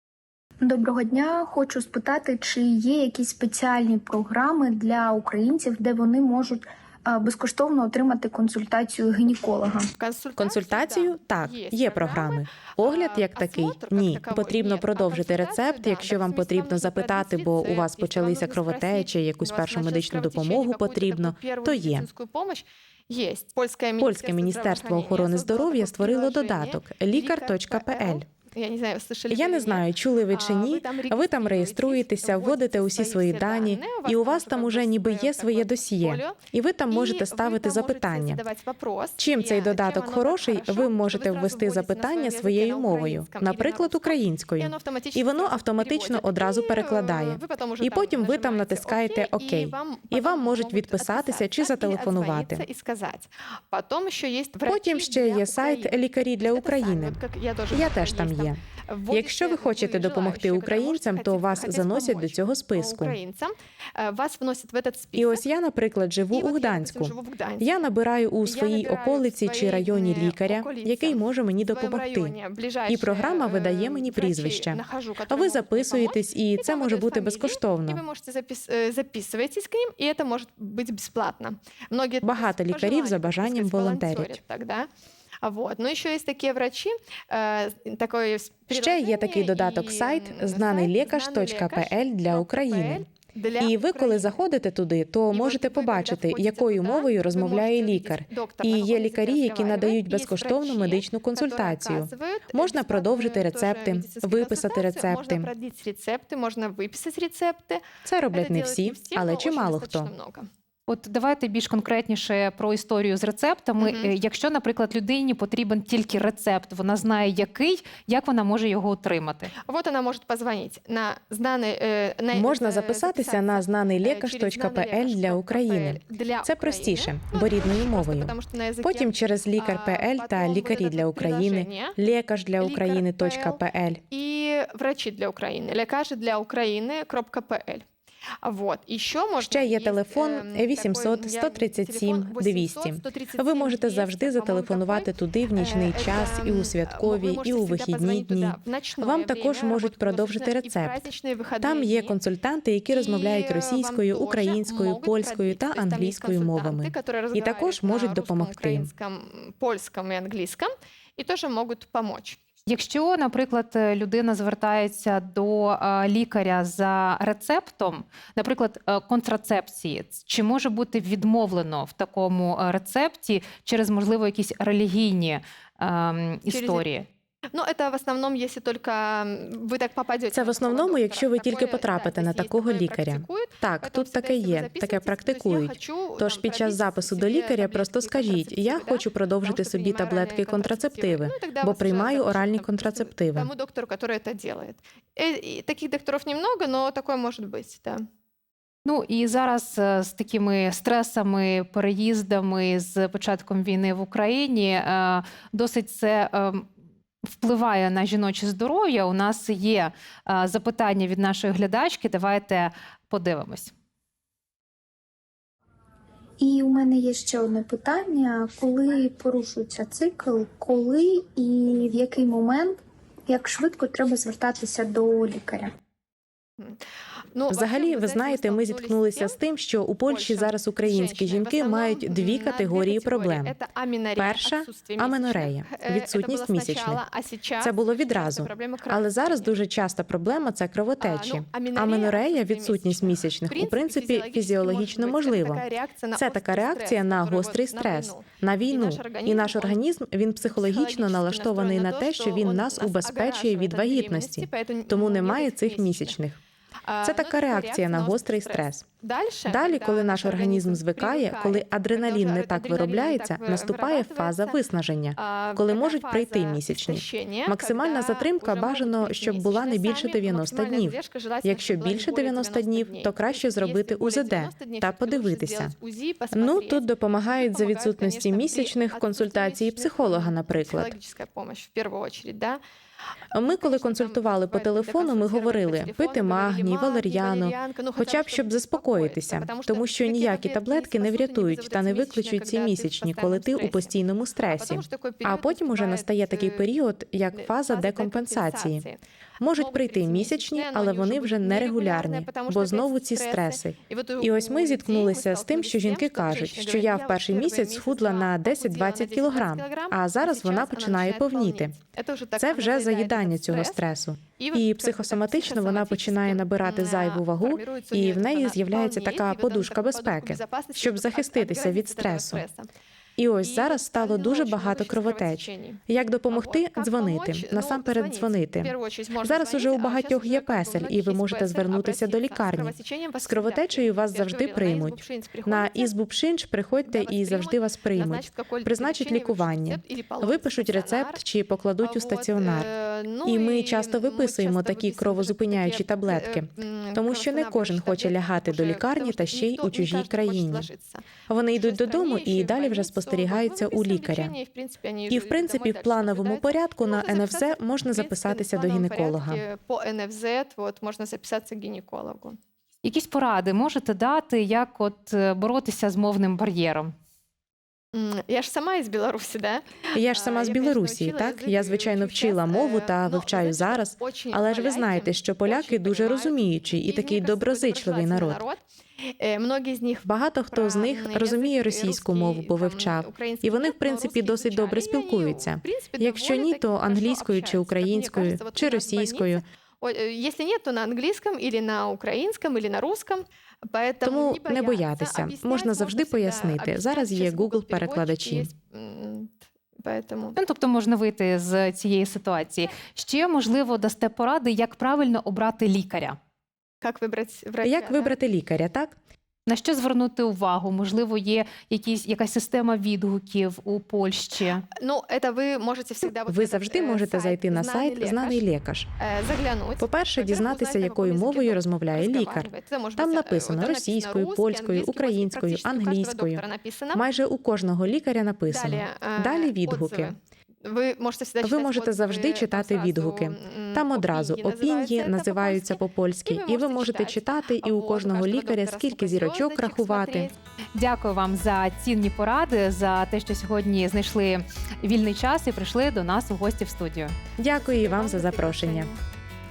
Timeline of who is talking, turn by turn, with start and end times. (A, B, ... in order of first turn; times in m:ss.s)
0:00.6-0:09.9 A
0:10.0-1:05.4 B
0:10.4-0:22.0 C
0:24.0-0:28.2 C
0:29.3-0:38.4 C
0:39.2-0:52.6 C
0:54.7-1:03.2 C
1:05.2-1:12.4 C
1:06.3-1:07.7 B
1:08.4-1:24.9 B
1:12.9-1:18.0 C
1:22.2-1:24.4 C
1:25.4-1:34.4 B
1:28.7-1:33.0 C
1:33.6-1:45.5 C
1:35.3-1:50.5 B
1:48.0-1:50.1 C
1:50.9-1:59.5 D
1:53.8-1:54.1 B
1:59.6-2:12.0 B
2:02.3-2:14.0 C
2:12.6-2:17.8 B
2:18.4-2:32.2 B
2:19.4-2:31.0 C
2:31.6-2:38.9 C
2:32.9-2:42.4 B
2:42.6-2:57.0 D
2:56.5-2:56.8 B
2:57.5-3:18.0 B
3:00.3-3:13.5 C
3:18.8-3:26.7 D
3:27.2-3:33.7 D
3:36.4-3:45.7 A
3:47.3-3:49.4 B
3:47.5-3:53.5 C
3:50.0-3:59.6 B
3:54.2-3:57.0 C
3:57.6-4:16.4 C
4:01.0-4:09.8 B
4:10.6-4:16.2 B
4:16.9-4:24.6 B
4:17.0-4:18.9 C
4:19.4-4:35.7 C
4:25.2-4:42.6 B
4:36.3-4:40.9 C
4:43.3-4:58.8 C
4:43.4-4:56.7 B
4:57.3-4:59.0 B
4:59.4-5:11.8 C
4:59.5-5:13.8 B
5:12.4-5:22.4 C
5:14.4-5:22.7 B
5:23.2-5:42.7 C
5:23.4-5:35.9 B
5:36.9-5:41.2 B
5:41.8-5:51.0 B
5:43.2-5:50.7 C
5:51.3-5:54.3 C
5:51.6-6:02.4 B
5:55.1-5:59.4 C
6:02.8-6:06.9 D
6:07.9-6:18.6 B
6:09.9-6:18.4 C
6:19.2-6:40.4 B
6:20.0-6:29.4 C
6:34.0-6:38.5 C
6:40.4-6:46.2 D
6:46.8-6:48.2 B
6:47.6-6:48.9 C
6:49.4-6:54.6 D
6:54.8-6:58.4 B
6:56.3-6:58.9 C
6:59.0-7:07.0 B
6:59.8-7:10.1 C
7:08.5-7:20.3 B
7:11.4-7:20.3 C
7:20.7-7:27.1 D
7:27.4-7:28.9 C
7:27.5-7:29.0 B